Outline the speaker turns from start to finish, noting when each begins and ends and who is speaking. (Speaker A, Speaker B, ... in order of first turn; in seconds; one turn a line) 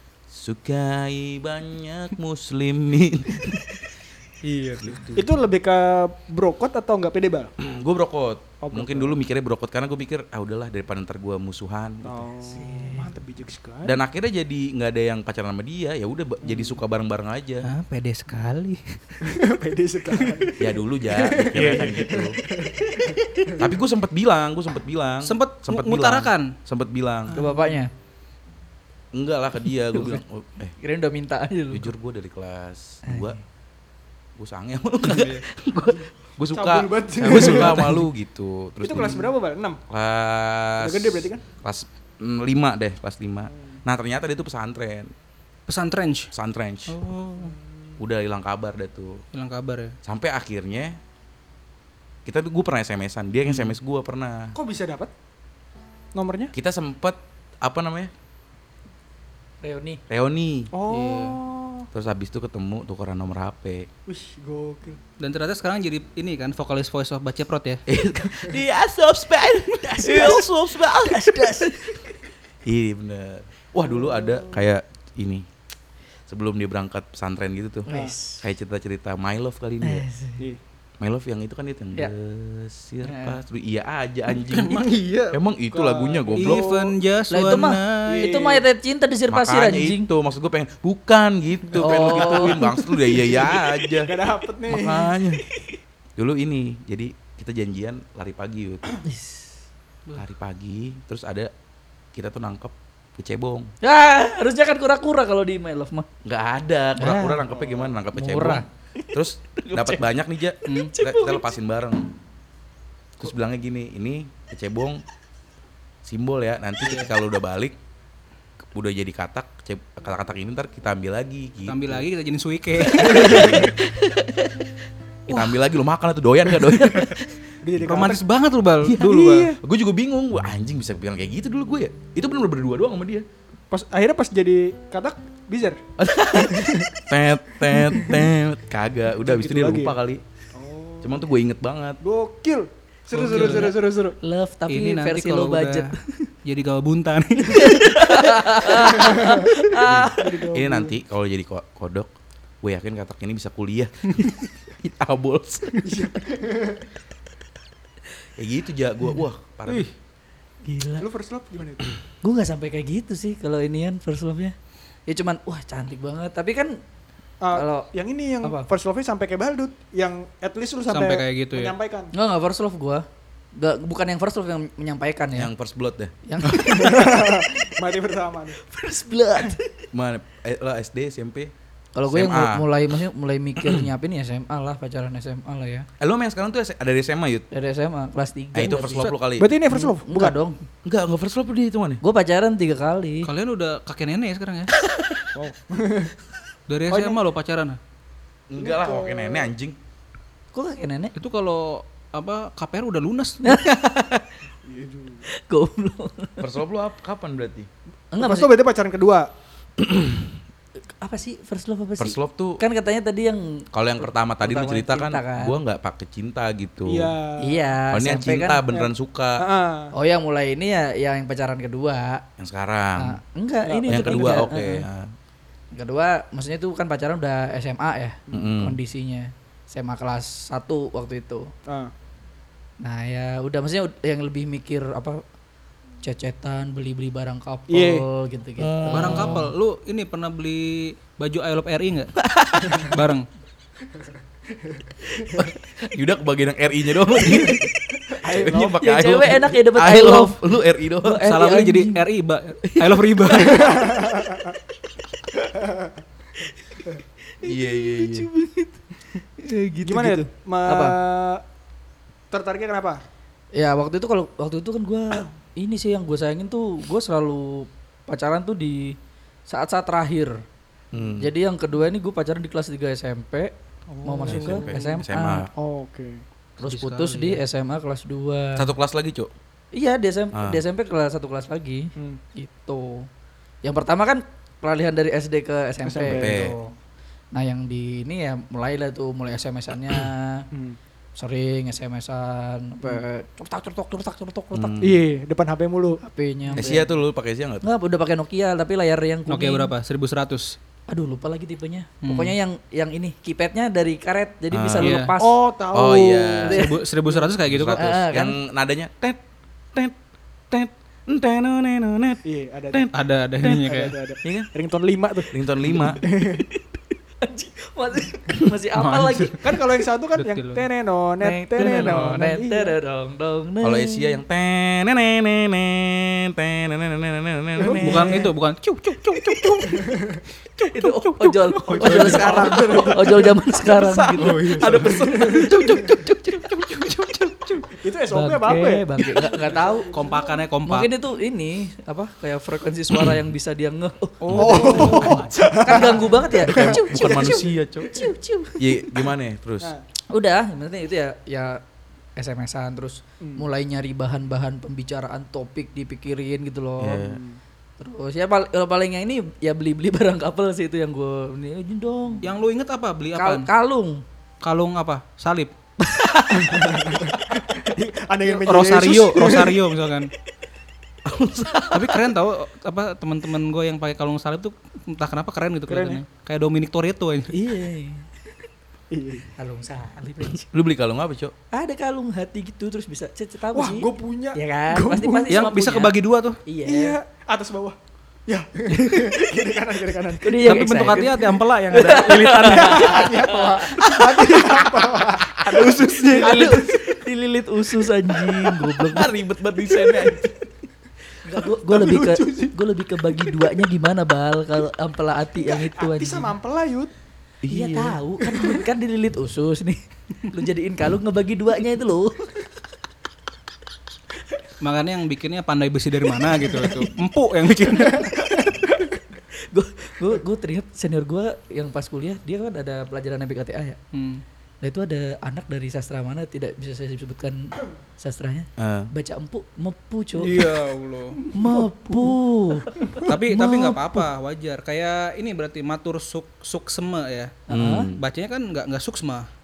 Speaker A: 0.3-3.7
Speaker B: 4.4-4.9
Speaker A: 4.8-5.3
Speaker C: 5.2-7.5
Speaker A: 7.6-12.3
Speaker C: 8.6-9.2
Speaker C: 12.0-13.9
Speaker D: 12.5-13.1
Speaker A: 13.8-17.7
Speaker C: 16.4-16.8
Speaker B: 17.6-19.2
Speaker C: 19.2-23.7
Speaker A: 20.6-22.4
Speaker B: 21.5-22.0
Speaker A: 23.6-27.4
Speaker B: 25.2-26.5
Speaker B: 27.3-27.6
Speaker D: 27.4-27.9
Speaker A: 29.1-30.7
Speaker D: 29.9-30.2
Speaker D: 30.8-31.9
Speaker A: 31.7-33.4
Speaker D: 33.0-33.4
Speaker A: 34.4-39.3
Speaker B: 35.0-35.4
Speaker C: 35.9-37.9
Speaker B: 37.2-38.0
Speaker C: 38.8-39.8
Speaker A: 39.9-45.1
Speaker C: 40.8-41.4
Speaker C: 43.5-43.8
Speaker B: 45.7-46.3
Speaker A: 46.3-47.0
Speaker B: 46.9-47.5
Speaker C: 47.4-47.9
Speaker A: 48.0-49.2
Speaker B: 49.3-49.9
Speaker A: 50.0-51.0
Speaker A: 52.2-54.6
Speaker B: 53.5-53.7
Speaker C: 54.5-55.1
Speaker C: 56.1-56.5
Speaker A: 56.5-58.1
Speaker D: 59.6-60.0
Speaker A: 60.1-60.7
Speaker C: 60.7-61.9
Speaker B: 60.9-61.4
Speaker A: 61.9-63.9
Speaker C: 64.0-65.0
Speaker B: 65.2-67.8
Speaker A: 67.9-72.1
Speaker D: 69.8-72.0
Speaker A: 72.6-75.4
Speaker C: 73.8-74.6
Speaker A: 76.3-80.0
Speaker D: 77.9-78.5
Speaker C: 77.9-78.2
Speaker D: 79.8-80.4
Speaker A: 81.0-86.7
Speaker D: 83.0-83.4
Speaker B: 84.3-85.4
Speaker C: 85.7-86.9
Speaker B: 86.3-88.3
Speaker D: 87.3-90.1
Speaker C: 88.1-88.6
Speaker A: 89.3-94.1
Speaker C: 91.8-92.7
Speaker D: 91.8-93.6
Speaker C: 93.2-95.1
Speaker A: 94.7-95.4
Speaker D: 94.7-95.8
Speaker A: 96.2-98.8
Speaker D: 99.0-99.5
Speaker A: 100.1-101.5
Speaker A: 102.1-103.7
Speaker D: 103.8-106.1
Speaker A: 106.2-112.1
Speaker D: 107.0-107.4
Speaker C: 107.5-108.0
Speaker D: 108.1-110.0
Speaker D: 110.7-111.5
Speaker B: 110.7-110.9
Speaker A: 113.2-115.0
Speaker A: 116.0-117.8
Speaker B: 116.8-117.1
Speaker A: 118.7-122.0
Speaker B: 121.7-123.7
Speaker A: 122.9-124.5
Speaker A: 125.3-127.2
Speaker B: 125.3-125.6
Speaker B: 126.5-127.2
Speaker C: 127.6-128.2
Speaker B: 127.8-129.5
Speaker A: 128.8-133.2
Speaker C: 129.0-129.6
Speaker C: 133.7-135.8
Speaker A: 136.0-140.2
Speaker C: 136.3-136.9
Speaker C: 137.7-138.2
Speaker C: 139.2-139.9
Speaker C: 140.5-141.2
Speaker A: 141.0-142.0
Speaker C: 142.0-144.2
Speaker B: 143.1-143.8
Speaker D: 143.3-146.3
Speaker B: 144.7-145.9
Speaker B: 146.4-148.0
Speaker D: 147.5-150.5
Speaker C: 148.8-150.9
Speaker A: 149.8-152.1
Speaker A: 152.6-155.9
Speaker C: 155.8-156.8
Speaker A: 158.4-159.9
Speaker D: 160.6-161.1
Speaker C: 161.0-161.9
Speaker D: 162.2-164.5
Speaker D: 165.1-166.8
Speaker C: 167.4-172.1
Speaker D: 167.5-167.9
Speaker D: 168.4-168.7
Speaker B: 170.9-171.7
Speaker D: 172.1-175.5
Speaker A: 175.3-176.6
Speaker D: 176.2-177.5
Speaker C: 176.5-178.6
Speaker D: 178.6-179.9
Speaker A: 179.9-181.5
Speaker D: 181.9-185.9
Speaker A: 182.1-182.7
Speaker A: 186.0-187.4
Speaker D: 187.5-189.1
Speaker A: 188.5-189.5
Speaker B: 188.8-189.1
Speaker C: 189.3-190.3
Speaker D: 189.7-190.6
Speaker A: 190.8-192.0
Speaker D: 192.0-193.3
Speaker B: 193.2-194.7
Speaker C: 195.3-196.1
Speaker B: 196.7-197.8
Speaker C: 196.9-197.2
Speaker A: 198.5-199.8
Speaker C: 198.6-199.5
Speaker D: 200.5-201.1
Speaker B: 201.2-203.7
Speaker D: 203.4-204.4
Speaker C: 204.6-205.2
Speaker D: 205.3-206.5
Speaker A: 206.4-207.7
Speaker D: 208.1-208.5
Speaker C: 208.2-209.3
Speaker A: 209.8-210.3
Speaker D: 211.0-213.7
Speaker A: 212.0-212.6
Speaker A: 213.7-217.1
Speaker D: 214.4-215.6
Speaker C: 216.8-217.8
Speaker D: 217.4-218.6
Speaker A: 217.9-219.4
Speaker C: 218.7-219.9
Speaker D: 219.9-222.2
Speaker A: 222.4-223.2
Speaker D: 223.0-224.8
Speaker C: 223.6-224.5
Speaker A: 223.9-225.1
Speaker D: 225.7-231.5
Speaker A: 228.3-228.8
Speaker C: 231.7-231.9
Speaker D: 232.8-235.2
Speaker D: 236.0-239.5
Speaker C: 237.7-238.1
Speaker B: 238.9-242.2
Speaker A: 242.2-242.9
Speaker B: 242.7-243.3
Speaker A: 245.3-247.6
Speaker C: 248.2-248.8
Speaker A: 248.2-251.2
Speaker D: 248.8-250.4
Speaker D: 251.0-252.0
Speaker B: 251.2-253.8
Speaker D: 252.7-254.0
Speaker C: 253.4-254.5
Speaker D: 257.4-261.0
Speaker A: 257.4-258.3
Speaker C: 259.8-261.4
Speaker C: 262.3-263.0
Speaker D: 263.5-268.9
Speaker D: 269.5-270.4
Speaker A: 270.9-271.3
Speaker D: 271.2-273.5
Speaker C: 273.9-275.0
Speaker D: 274.0-275.4
Speaker B: 274.3-274.8
Speaker A: 274.3-275.5
Speaker C: 275.5-276.2
Speaker D: 276.6-278.6
Speaker B: 276.6-277.4
Speaker A: 278.6-279.3
Speaker D: 279.7-283.1
Speaker A: 280.3-280.6
Speaker D: 283.6-286.7
Speaker C: 285.8-286.6
Speaker A: 286.1-286.6
Speaker D: 287.3-290.5
Speaker C: 290.5-290.8
Speaker D: 291.2-294.8
Speaker A: 294.5-295.0
Speaker C: 294.8-296.0
Speaker D: 296.0-296.9
Speaker A: 296.6-297.6
Speaker D: 297.6-299.7
Speaker B: 299.3-300.6
Speaker D: 300.9-305.4
Speaker B: 302.0-302.3
Speaker A: 304.5-305.0
Speaker B: 304.8-305.1
Speaker C: 305.1-307.3
Speaker A: 305.7-306.7
Speaker B: 306.5-307.9
Speaker A: 307.4-309.2
Speaker D: 307.7-308.4
Speaker A: 310.5-313.6
Speaker C: 312.2-312.9
Speaker B: 312.9-313.9
Speaker C: 313.5-316.5
Speaker A: 314.2-314.5
Speaker A: 315.3-316.0
Speaker D: 316.3-319.4
Speaker B: 318.7-319.4
Speaker C: 319.4-322.7
Speaker B: 320.1-320.7
Speaker D: 321.2-324.1
Speaker B: 321.7-322.2
Speaker A: 323.6-328.3
Speaker C: 327.6-328.1
Speaker B: 327.7-329.9
Speaker D: 330.6-335.4
Speaker B: 330.8-333.2
Speaker C: 331.8-333.3
Speaker A: 332.0-332.9
Speaker A: 333.6-337.6
Speaker B: 334.0-335.6
Speaker C: 334.7-335.5
Speaker C: 337.8-340.4
Speaker D: 338.1-339.9
Speaker B: 339.9-340.9
Speaker D: 340.6-348.8
Speaker B: 344.2-345.3
Speaker A: 344.2-349.7
Speaker C: 344.3-348.1
Speaker D: 350.1-351.6
Speaker D: 352.2-357.0
Speaker C: 353.2-353.5
Speaker A: 356.8-357.2
Speaker C: 356.9-357.4
Speaker D: 357.8-362.3
Speaker B: 362.2-363.5
Speaker D: 363.1-364.0
Speaker B: 364.4-365.5
Speaker A: 365.9-367.0
Speaker C: 366.3-369.6
Speaker B: 368.3-370.1
Speaker A: 371.0-372.0
Speaker B: 371.7-377.3
Speaker C: 375.7-376.0
Speaker D: 377.3-378.1
Speaker C: 378.9-379.3
Speaker D: 379.4-380.5
Speaker A: 380.5-381.3
Speaker D: 381.5-387.0
Speaker C: 383.5-385.4
Speaker B: 385.3-386.4
Speaker C: 386.6-391.2
Speaker D: 388.8-389.3
Speaker D: 390.2-393.9
Speaker B: 390.4-393.2
Speaker C: 391.8-396.8
Speaker A: 395.2-396.7
Speaker B: 395.6-396.5
Speaker D: 395.9-399.1
Speaker A: 398.6-400.3
Speaker D: 401.2-406.3
Speaker C: 401.4-402.6
Speaker C: 403.1-403.5
Speaker C: 405.4-406.9
Speaker A: 407.4-408.0
Speaker D: 407.5-412.4
Speaker C: 408.3-408.6
Speaker B: 414.6-418.1
Speaker D: 417.9-423.8
Speaker B: 423.9-424.2
Speaker D: 424.6-430.5
Speaker A: 428.6-428.9
Speaker B: 430.2-431.2
Speaker D: 431.3-434.0
Speaker C: 431.4-432.1
Speaker C: 432.8-433.1
Speaker B: 433.0-437.4
Speaker D: 437.5-437.9
Speaker A: 437.5-438.0
Speaker B: 437.9-439.3